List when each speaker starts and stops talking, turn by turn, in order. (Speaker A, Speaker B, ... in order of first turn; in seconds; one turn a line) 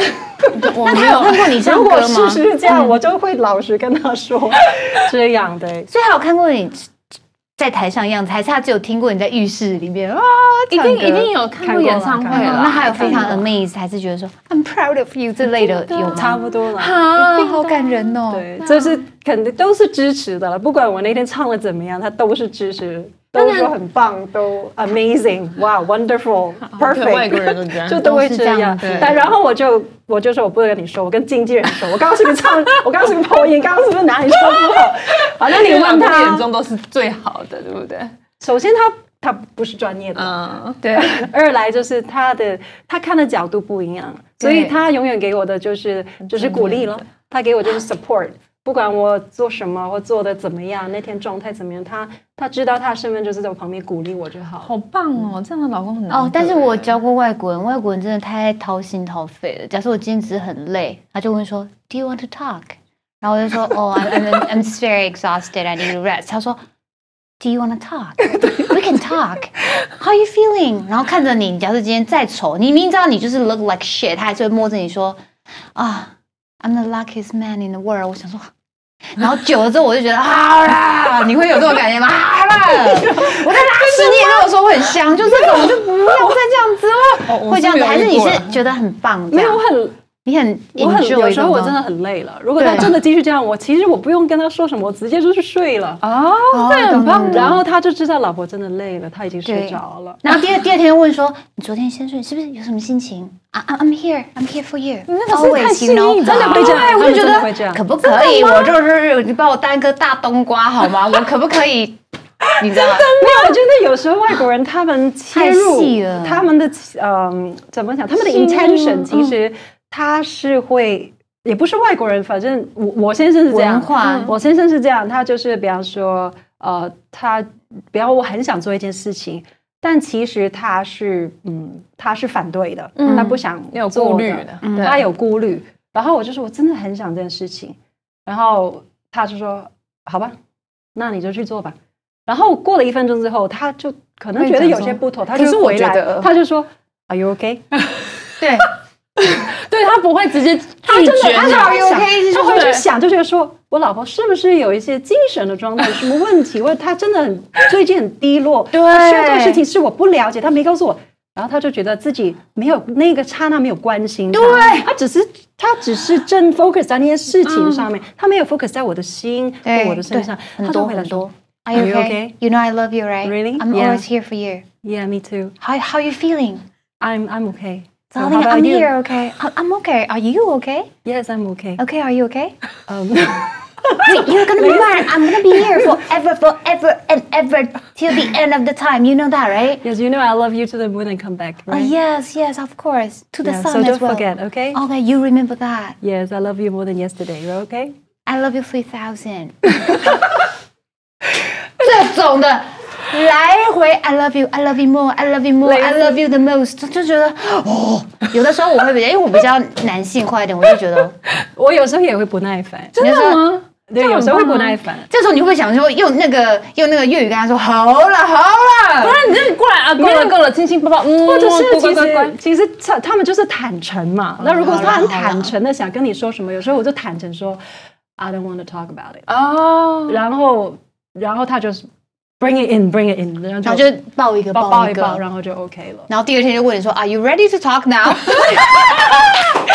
Speaker A: 0.3-5.9
Speaker B: 0.4-1.5
Speaker C: 0.6-2.9
Speaker C: 5.9-6.9
Speaker C: 7.6-11.3
Speaker B: 10.7-13.4
Speaker A: 11.6-13.4
Speaker C: 12.3-18.5
Speaker B: 15.6-16.4
Speaker A: 16.1-17.1
Speaker B: 17.1-19.0
Speaker A: 18.3-36.5
Speaker B: 23.4-23.7
Speaker B: 26.7-28.1
Speaker C: 27.9-29.2
Speaker B: 28.8-29.1
Speaker B: 34.5-38.1
Speaker A: 38.4-40.4
Speaker B: 40.2-41.2
Speaker A: 40.9-54.7
Speaker B: 44.4-44.8
Speaker B: 46.3-47.0
Speaker B: 54.6-56.9
Speaker C: 56.1-66.6
Speaker C: 67.4-75.2
Speaker C: 75.8-78.5
Speaker C: 79.1-89.6
Speaker A: 83.1-84.2
Speaker B: 84.1-84.3
Speaker B: 87.2-88.6
Speaker A: 89.3-90.0
Speaker C: 90.2-91.8
Speaker A: 90.8-96.0
Speaker C: 92.6-93.0
Speaker B: 96.0-97.6
Speaker C: 96.5-97.6
Speaker A: 97.2-100.2
Speaker C: 99.5-112.0
Speaker B: 105.1-107.2
Speaker A: 106.2-107.9
Speaker C: 112.6-113.1
Speaker A: 112.7-140.3
Speaker B: 112.9-113.5
Speaker C: 115.3-116.5
Speaker B: 118.2-119.1
Speaker C: 123.5-124.3
Speaker B: 124.0-124.3
Speaker B: 133.0-135.1
Speaker C: 133.0-133.4
Speaker C: 134.6-135.0
Speaker A: 140.9-147.7
Speaker B: 144.4-146.3
Speaker C: 148.4-148.7
Speaker B: 149.2-151.8
Speaker A: 150.8-172.3
Speaker C: 151.3-152.7
Speaker B: 152.3-152.8
Speaker C: 158.7-159.6
Speaker C: 164.3-164.9
Speaker B: 167.5-167.9
Speaker C: 169.7-174.7
Speaker A: 173.2-174.0
Speaker A: 174.8-175.6
Speaker C: 175.6-176.6
Speaker A: 177.0-178.9
Speaker C: 178.1-180.9
Speaker A: 181.1-181.8
Speaker C: 181.8-182.6
Speaker A: 182.9-185.9
Speaker C: 184.0-189.8
Speaker A: 189.8-191.9
Speaker C: 191.7-196.0
Speaker A: 193.4-194.8
Speaker A: 196.0-197.9
Speaker C: 198.3-200.2
Speaker C: 201.8-211.2
Speaker A: 205.6-206.2
Speaker A: 211.6-213.0
Speaker B: 213.0-214.8
Speaker C: 213.0-213.5
Speaker A: 213.9-215.1
Speaker C: 215.1-219.2
Speaker B: 219.0-222.3
Speaker A: 220.0-220.4
Speaker A: 221.2-227.6
Speaker C: 224.4-225.5
Speaker A: 228.2-229.3
Speaker B: 229.3-230.2
Speaker A: 230.1-231.9
Speaker A: 232.4-233.9
Speaker C: 233.6-235.2
Speaker A: 234.5-236.1
Speaker C: 236.1-239.4